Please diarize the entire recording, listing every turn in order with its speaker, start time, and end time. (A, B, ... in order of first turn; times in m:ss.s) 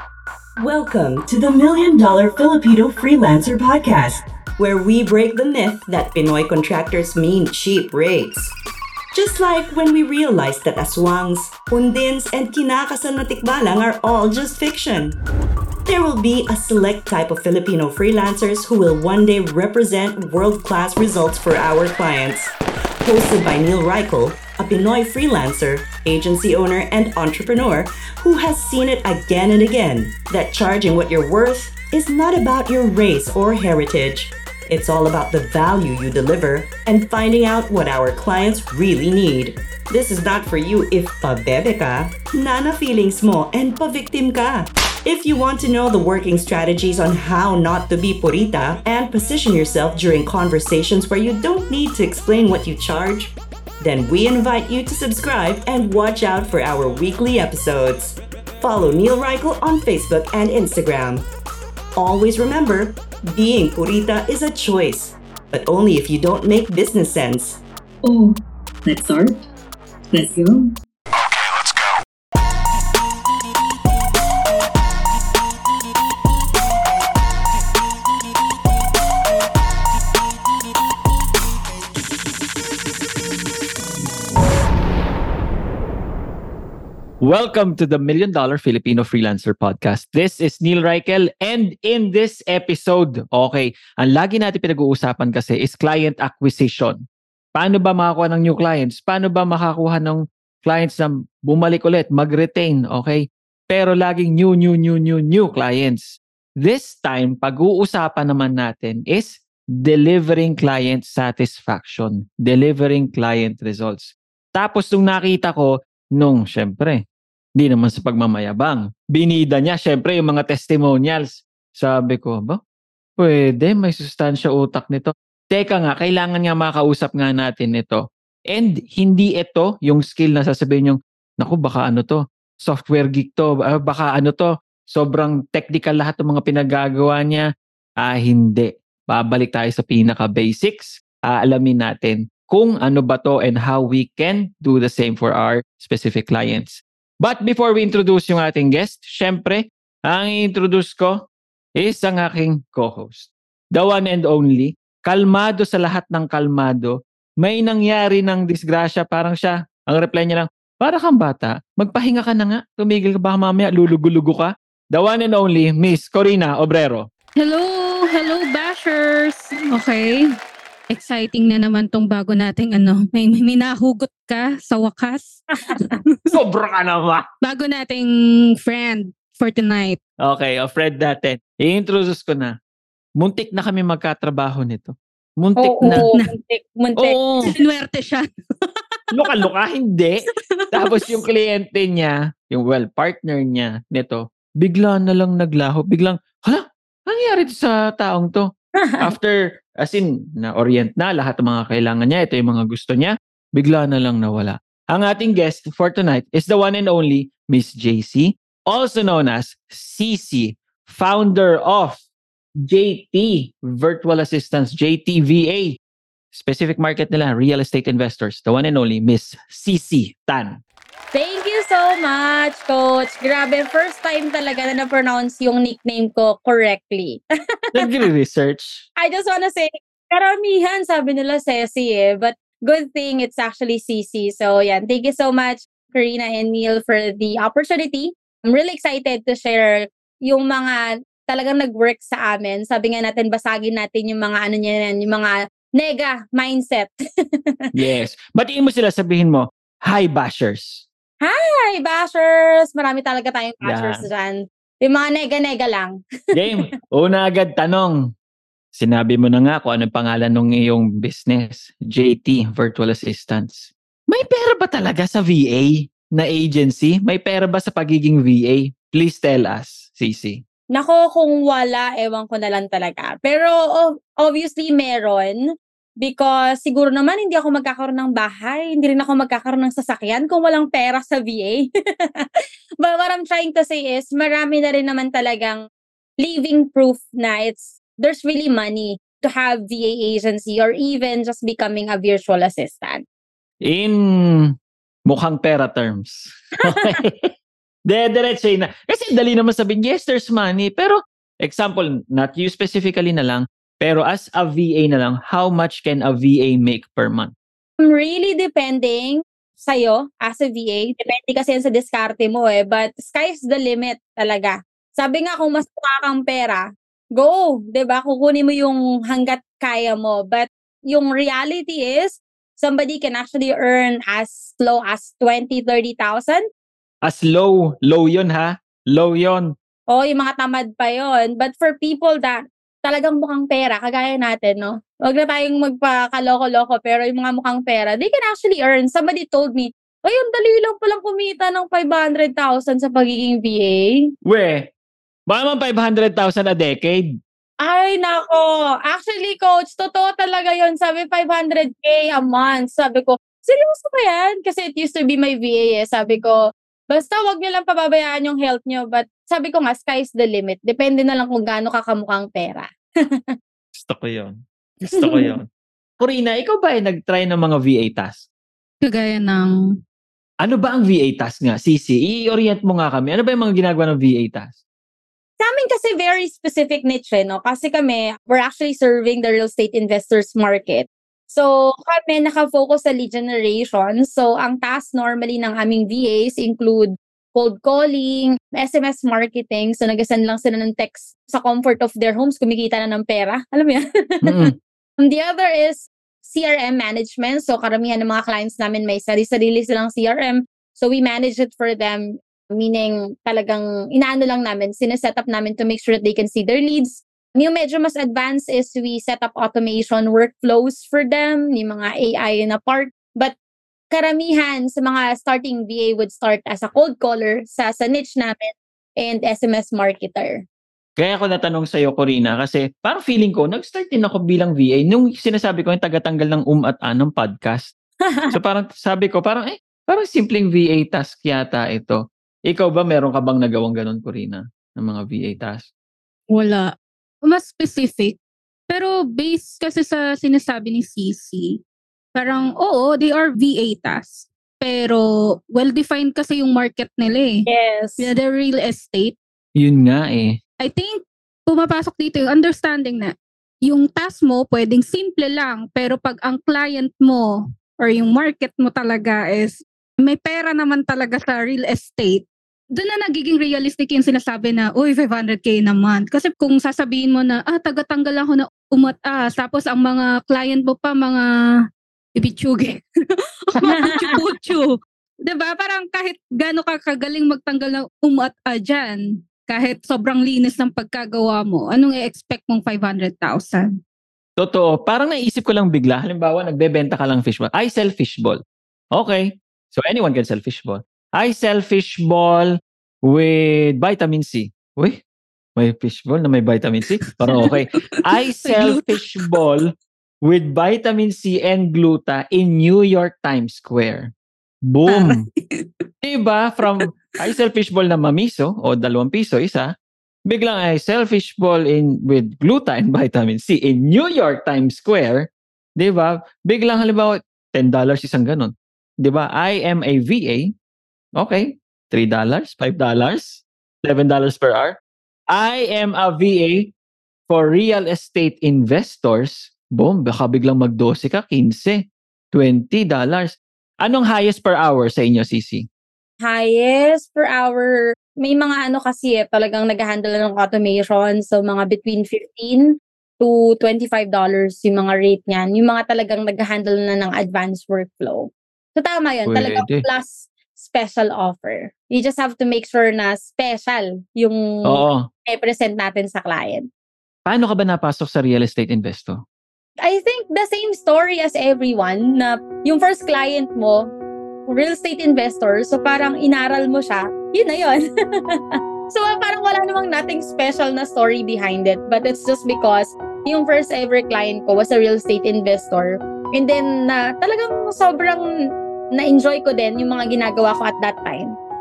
0:00.6-0:08.5 A
0:09.1-0:15.2 A
0:15.9-1:01.3 A
1:02.0-1:07.6 A
1:08.0-1:09.4 B
1:10.1-1:10.8 B
1:27.2-1:37.0 C
1:37.6-1:46.1 C
1:46.6-1:57.0 C
1:57.6-2:02.6 C
2:03.2-2:17.5 C
2:18.0-2:31.2 C
2:31.8-2:47.0 C
2:47.4-2:50.3 D
2:50.9-2:56.4 D
2:56.3-2:57.2 C
2:57.4-2:58.1 D
2:58.6-3:00.0 D
3:00.2-3:02.5 C
3:03.2-3:06.0 C
3:05.6-3:07.2 E
3:05.9-3:06.3 D
3:07.0-3:07.5 C
3:07.5-3:09.0 D
3:09.1-3:18.5 C
3:18.8-3:19.1 E
3:19.0-3:32.0 C
3:32.6-3:35.8 C
3:36.3-3:40.6 C
3:41.1-3:47.2 E
3:47.8-3:48.8 C
3:49.0-4:06.9 E
4:07.8-4:10.9 C
4:11.2-4:16.0 E
4:13.6-4:14.0 C
4:16.4-4:18.0 C
4:18.7-4:30.4 C
4:30.7-4:35.4 E
4:36.0-4:42.3 E
4:42.8-4:45.6 E
4:46.2-4:53.0 E
4:53.6-4:54.5 C
4:55.1-4:57.3 C
4:57.9-5:07.3 C
5:07.8-5:16.6 E
5:17.2-5:26.4 E
5:27.0-5:29.5 C
5:29.9-5:44.0 E
5:44.2-5:44.7 C
5:45.3-5:47.1 C
5:47.6-5:56.4 E
5:56.9-6:03.3 E
6:03.8-6:04.4 C
6:04.9-6:05.4 C
6:04.9-6:05.3 E
6:06.0-6:08.2 C
6:08.8-6:09.5 D
6:10.4-6:14.6 C
6:15.4-6:53.4 E
6:34.2-6:34.5 C
6:53.9-7:00.4 E
7:01.0-7:07.7 C
7:08.3-7:15.7 C
7:16.3-7:16.7 D
7:17.2-7:18.2 D
7:18.7-7:21.6 D
7:22.2-7:27.5 D
7:27.5-7:28.1 E
7:28.0-7:29.2 D
7:29.6-7:30.4 C
7:30.6-7:51.3 D
7:52.2-7:52.8 D
7:53.5-8:03.8 D
7:53.6-7:54.2 E
8:04.4-8:08.4 C
8:09.0-8:12.5 C
8:13.1-8:15.0 C
8:15.6-8:19.7 C
8:17.0-8:19.2 D
8:20.2-8:24.1 C
8:24.6-8:25.2 C
8:24.9-8:25.7 D
8:26.0-8:29.7 C
8:30.3-8:40.5 C
8:41.2-8:44.8 C
8:45.3-8:46.7 C
8:47.3-8:51.8 C
8:52.3-8:55.7 C
8:56.2-9:02.7 E
9:03.2-9:16.7 E
9:09.3-9:09.8 C
9:14.7-9:15.1 C
9:17.3-9:19.2 C
9:19.8-9:23.9 E
9:24.5-9:27.8 E
9:28.9-9:38.2 E
9:39.0-9:41.3 E